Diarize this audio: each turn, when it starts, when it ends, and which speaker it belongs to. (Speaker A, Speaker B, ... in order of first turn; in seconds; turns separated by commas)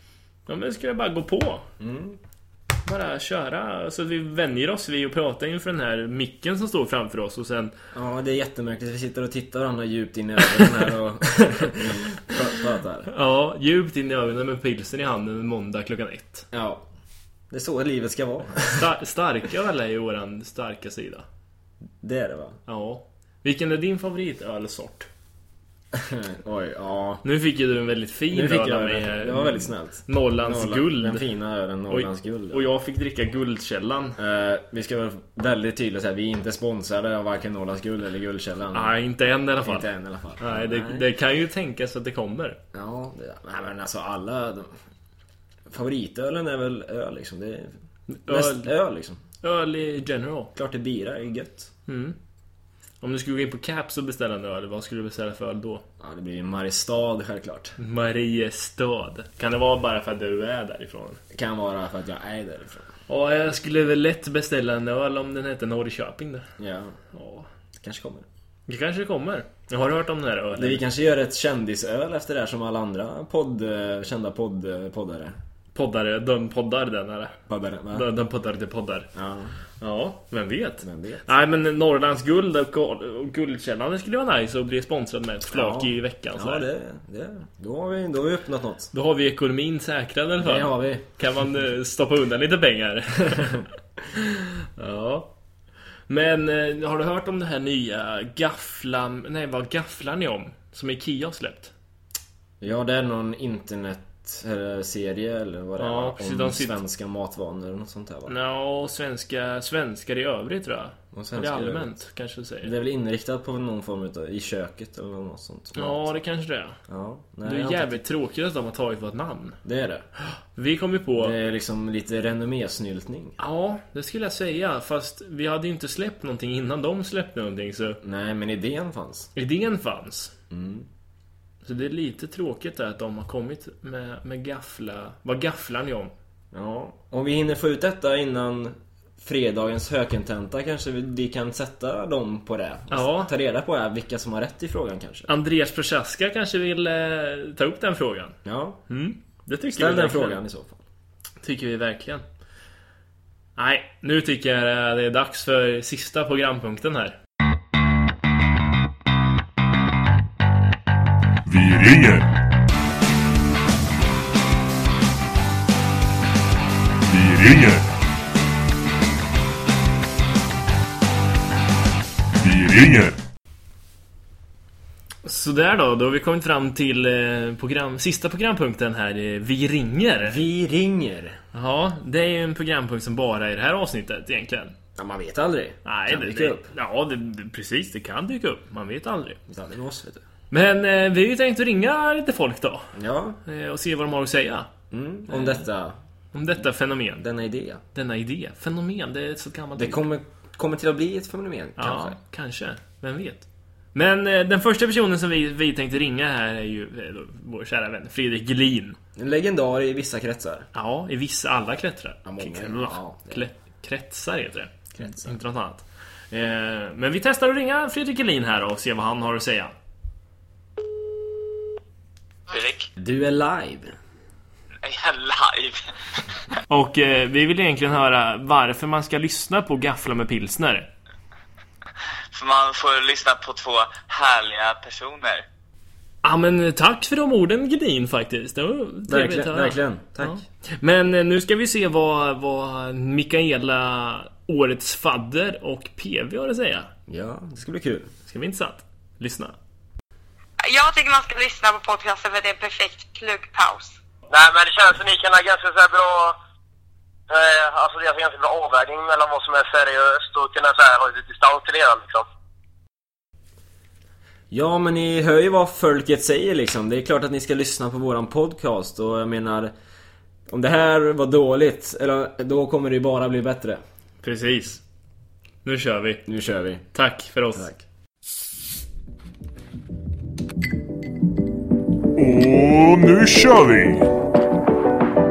Speaker A: 0.5-1.7, Speaker B: 1.8-2.2, Speaker A: 2.9-7.7, Speaker B: 7.9-13.1, Speaker A: 13.1-16.5, Speaker B: 16.5-16.9, Speaker B: 17.5-18.9, Speaker A: 18.7-21.2, Speaker B: 22.0-22.6, Speaker A: 22.7-25.1, Speaker B: 25.9-27.2, Speaker A: 27.2-31.2, Speaker B: 28.3-32.7, Speaker A: 31.9-34.2, Speaker B: 34.2-39.0, Speaker A: 38.7-39.9, Speaker B: 39.6-41.1, Speaker A: 40.4-42.6, Speaker B: 42.7-44.8, Speaker B: 45.7-47.7, Speaker A: 48.1-48.7, Speaker B: 48.3-49.2, Speaker A: 49.4-50.5, Speaker B: 50.5-51.7, Speaker A: 51.9-52.2, Speaker A: 53.0-55.9, Speaker B: 56.0-57.8, Speaker A: 57.8-61.2, Speaker B: 61.3-62.9, Speaker A: 63.1-66.5, Speaker B: 66.6-67.0, Speaker A: 67.1-67.5, Speaker B: 67.8-68.3, Speaker A: 68.7-70.8, Speaker B: 70.5-75.4, Speaker A: 75.7-77.4, Speaker B: 77.5-78.1, Speaker A: 77.9-79.1, Speaker B: 79.1-79.6, Speaker A: 79.8-86.7, Speaker B: 80.8-81.3, Speaker B: 85.5-88.9, Speaker A: 88.9-95.3, Speaker B: 90.4-91.0, Speaker A: 96.1-101.7, Speaker B: 102.6-108.3, Speaker A: 105.8-106.8, Speaker A: 108.3-112.7, Speaker B: 111.1-111.9, Speaker B: 112.6-116.1, Speaker A: 115.8-116.8, Speaker B: 116.9-118.0, Speaker A: 117.5-119.6, Speaker B: 119.6-120.1, Speaker A: 120.3-121.4, Speaker B: 121.2-123.4, Speaker A: 123.4-128.0, Speaker B: 128.0-129.3, Speaker A: 129.3-130.3, Speaker B: 130.5-130.9, Speaker A: 131.6-136.1, Speaker B: 136.5-145.3, Speaker A: 142.9-143.3, Speaker A: 145.3-148.4, Speaker B: 148.4-148.8, Speaker A: 148.9-150.4, Speaker B: 149.7-150.8, Speaker A: 151.4-152.2, Speaker A: 153.6-157.2, Speaker C: 161.5-162.4, Speaker C: 167.1-167.9, Speaker C: 172.4-173.2, Speaker A: 175.2-180.4, Speaker B: 180.2-181.4, Speaker A: 181.5-184.7, Speaker B: 184.9-186.7, Speaker A: 185.8-189.4, Speaker B: 189.5-190.2, Speaker A: 190.5-192.9, Speaker B: 192.9-193.4, Speaker A: 193.4-194.7, Speaker B: 194.9-196.0, Speaker A: 195.3-195.7, Speaker A: 196.3-197.2, Speaker B: 197.2-197.8, Speaker A: 197.9-200.1, Speaker B: 199.8-202.2, Speaker A: 201.8-209.0, Speaker B: 209.2-210.7, Speaker A: 210.7-219.7, Speaker B: 212.2-213.5, Speaker B: 214.9-215.3, Speaker D: 222.5-222.9, Speaker B: 223.0-223.9, Speaker D: 224.8-226.4, Speaker A: 226.7-230.9, Speaker D: 232.3-235.4, Speaker A: 236.2-246.9, Speaker B: 239.1-240.4, Speaker B: 247.1-248.1, Speaker A: 248.3-249.6, Speaker E: 250.7-254.0, Speaker F: 254.3-256.4, Speaker F: 257.3-262.2, Speaker B: 264.5-269.7, Speaker B: 270.5-273.8, Speaker A: 274.2-274.8, Speaker A: 275.6-276.2, Speaker B: 276.3-276.9, Speaker A: 276.9-277.7, Speaker B: 277.6-277.8, Speaker C: 282.2-284.1